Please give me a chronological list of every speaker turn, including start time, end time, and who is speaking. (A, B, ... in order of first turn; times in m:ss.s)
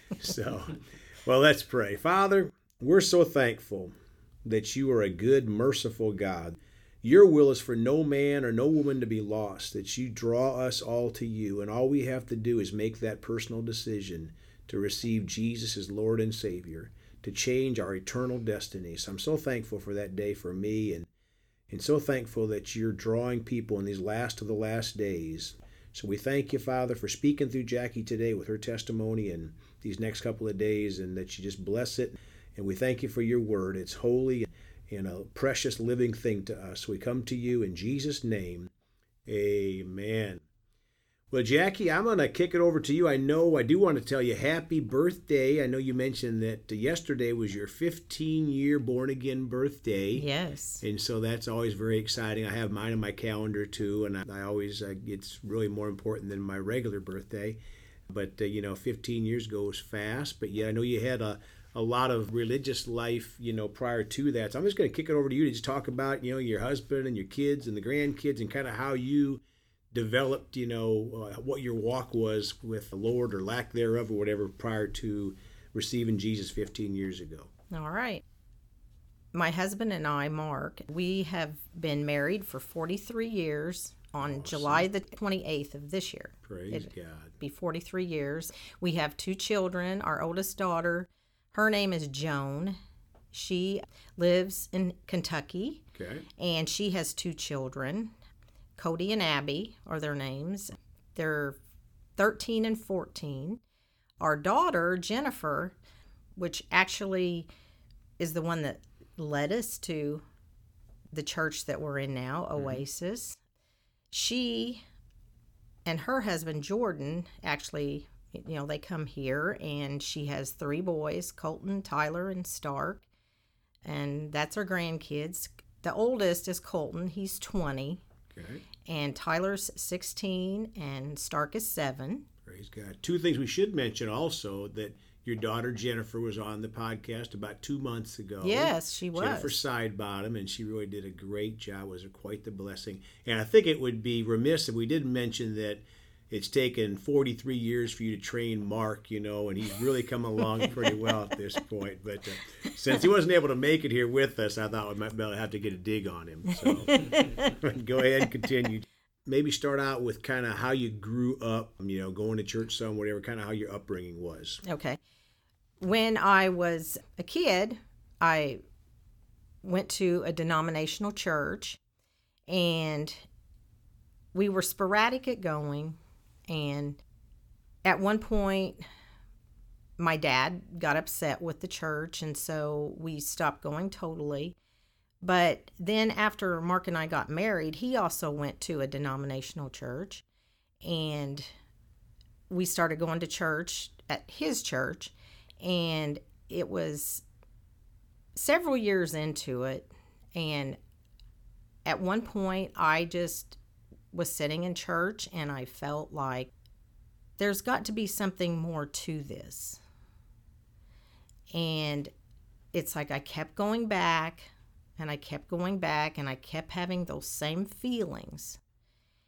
0:00.2-0:03.9 A
0:04.4-0:21.1 A
0:21.7-0:38.7 A
0:39.3-0:40.4 A
0:41.3-0:50.3 A
0:50.1-0:50.8 B
0:50.8-1:17.5 A
1:17.7-1:18.2 B
1:19.3-1:26.9 B
1:24.2-1:24.9 A
1:26.4-1:27.4 A
1:27.4-1:32.8 B
1:33.3-1:35.8 B
1:35.9-1:36.3 A
1:36.4-1:38.1 B
1:38.8-1:41.6 B
1:42.2-1:43.6 B
1:44.2-1:45.8 B
1:46.4-1:47.5 B
1:48.2-1:50.2 B
1:51.1-1:53.4 B
1:52.6-1:52.8 A
1:54.1-1:54.8 B
1:55.8-2:03.0 B
2:03.8-2:08.0 B
2:08.3-2:08.6 A
2:08.9-2:12.2 B
2:12.4-2:44.6 A
2:18.4-2:19.6 B
2:44.6-2:45.0 B
2:45.8-2:48.6 B
2:49.6-2:51.8 B
2:52.5-2:53.2 B
2:54.3-2:57.0 B
2:57.8-2:58.8 B
3:00.0-3:04.6 B
3:05.2-3:10.2 B
3:10.8-3:11.5 B
3:12.5-3:17.2 B
3:18.4-3:20.8 B
3:21.9-3:23.6 B
3:24.1-3:26.5 B
3:27.4-3:29.8 B
3:31.5-3:32.1 B
3:32.7-3:38.6 B